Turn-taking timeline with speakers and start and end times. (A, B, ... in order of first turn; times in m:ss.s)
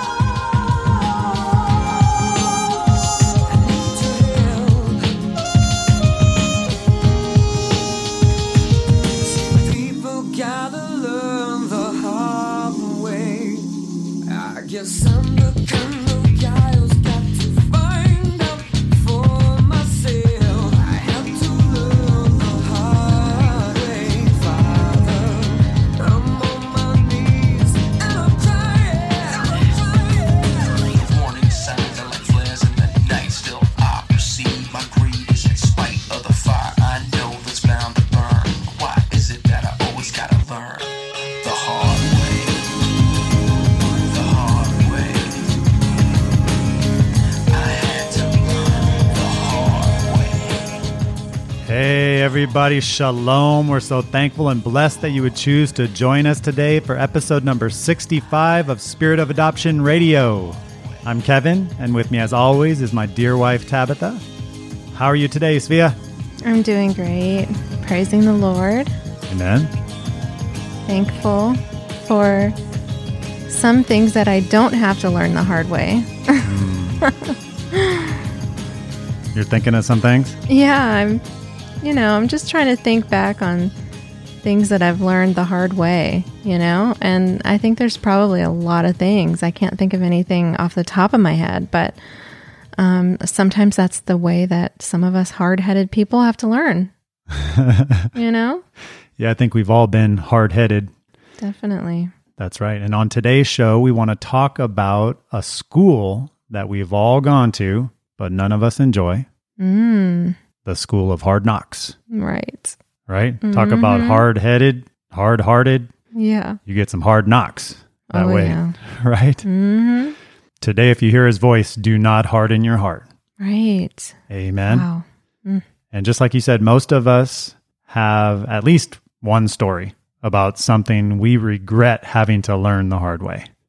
0:03.5-0:05.1 A
0:09.2-0:13.7 A
0:14.2-0:30.7 A
0:30.8-0:42.8 B
0:43.8-0:46.3 B
0:47.5-0:50.7 B
0:51.6-1:04.2 C
1:04.9-1:06.0 C
1:06.4-1:08.9 D
1:09.3-1:09.7 C
1:10.9-1:12.6 D
1:13.5-1:18.3 D
1:16.4-1:17.0 C
1:19.3-1:20.4 C
1:20.5-1:21.2 D
1:21.8-1:23.7 D
1:24.4-1:32.0 D
1:32.8-1:36.9 D
1:37.3-1:38.1 C
1:38.1-1:38.6 D
1:39.2-1:40.9 C
1:41.4-1:42.1 D
1:42.4-1:49.3 C
1:49.6-1:50.4 D
1:50.7-1:52.0 C
1:52.1-1:52.8 D
1:53.1-1:55.9 C
1:53.4-1:54.2 D
1:56.1-1:56.6 D
1:56.7-1:59.5 C
1:58.1-1:58.8 D
1:59.4-2:00.2 D
2:00.6-2:03.1 C
2:03.4-2:04.2 D
2:04.3-2:04.9 C
2:04.7-2:05.6 D
2:05.9-2:13.5 C